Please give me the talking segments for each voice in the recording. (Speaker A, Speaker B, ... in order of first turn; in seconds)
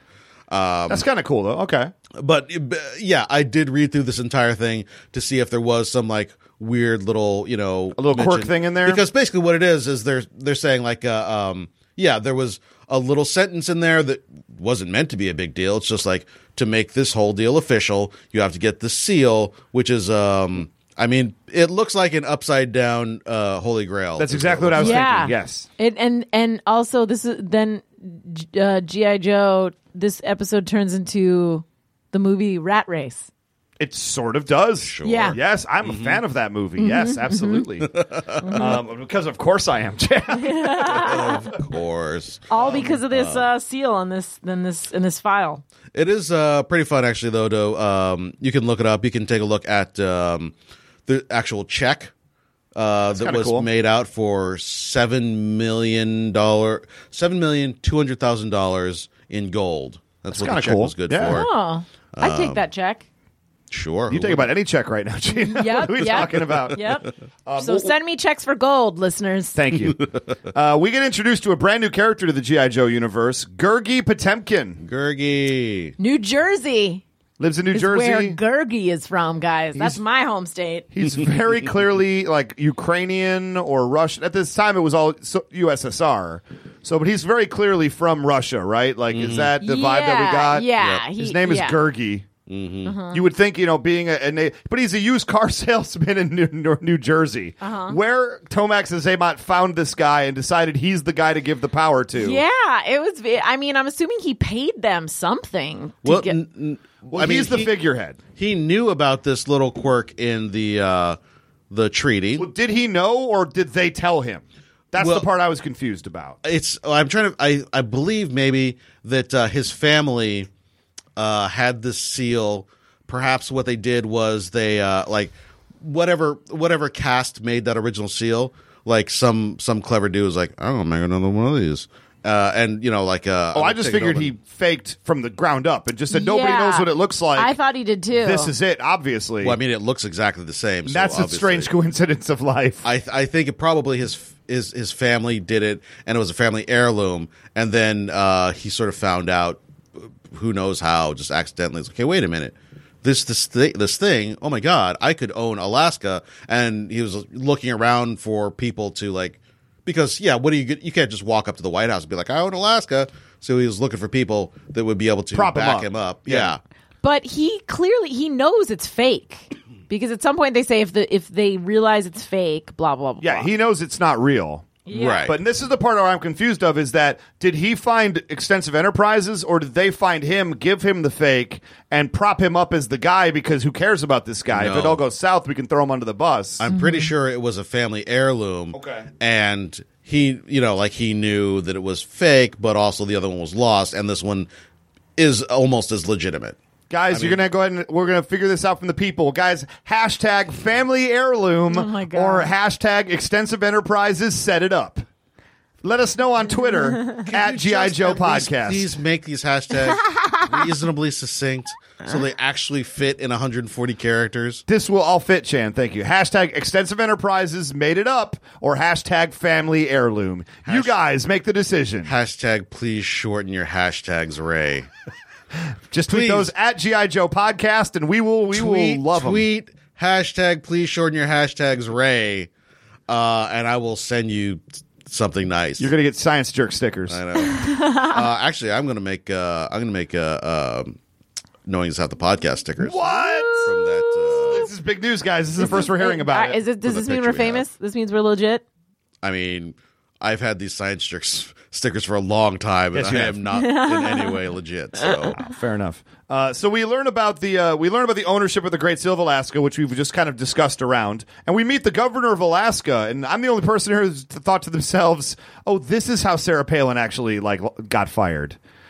Speaker A: 0.5-1.1, 2.1-25.2, 34.8-36.2, 37.8-38.8, 40.8-43.5, 45.9-50.5, 51.1-52.1, 52.7-61.5, 62.1-62.6, 63.7-64.5, 66.0-66.6, 74.8-75.9, 89.1-89.5, 90.8-91.0, 92.5-93.0, 106.0-107.7, 108.3-111.2, 111.7-112.5, 115.0-115.3, 116.4-120.5, 121.2-134.3, 139.4-141.7, 142.8-166.6, 174.9-175.3, 184.5-185.0, 186.6-194.5, 195.2-196.6, 197.1-197.4, 207.2-214.6, 220.7-220.9, 222.0-224.9, 226.1-226.5, 228.5-232.5, 233.1-235.9, 237.1-241.0, 241.6-244.7, 245.6-245.9, 246.8-247.7, 249.2-255.3
Speaker B: 0.9-1.9, 8.0-9.0, 24.2-25.7, 33.8-37.9, 38.5-41.2, 42.6-42.9, 53.1-53.7, 60.3-61.4, 64.1-66.8, 67.5-67.9, 69.5-74.8, 77.4-78.4, 80.9-92.3, 93.1-102.4, 107.1-108.2, 112.4-116.4, 133.5-137.6, 138.2-139.6, 140.9-142.8, 165.3-166.5, 173.2-186.6, 188.7-189.1, 196.9-205.0, 205.8-208.9, 214.7-222.1, 225.9-229.4, 235.8-237.2, 242.8-243.9, 244.4-246.6, 252.9-253.4, 255.3-268.6
Speaker C: 24.8-33.3, 35.0-35.4, 36.8-37.6, 38.4-38.7, 40.3-41.4, 42.5-45.6, 61.2-63.0, 65.4-69.6, 76.0-77.0, 77.7-80.9, 89.6-91.8, 92.8-93.2, 97.6-98.0, 102.2-106.4, 136.1-138.5, 167.0-173.5, 174.8-175.3, 186.7-187.1, 201.7-202.5, 210.1-210.4, 237.4-238.2, 243.2-244.5, 245.6-248.6, 253.5-254.4, 255.0-255.3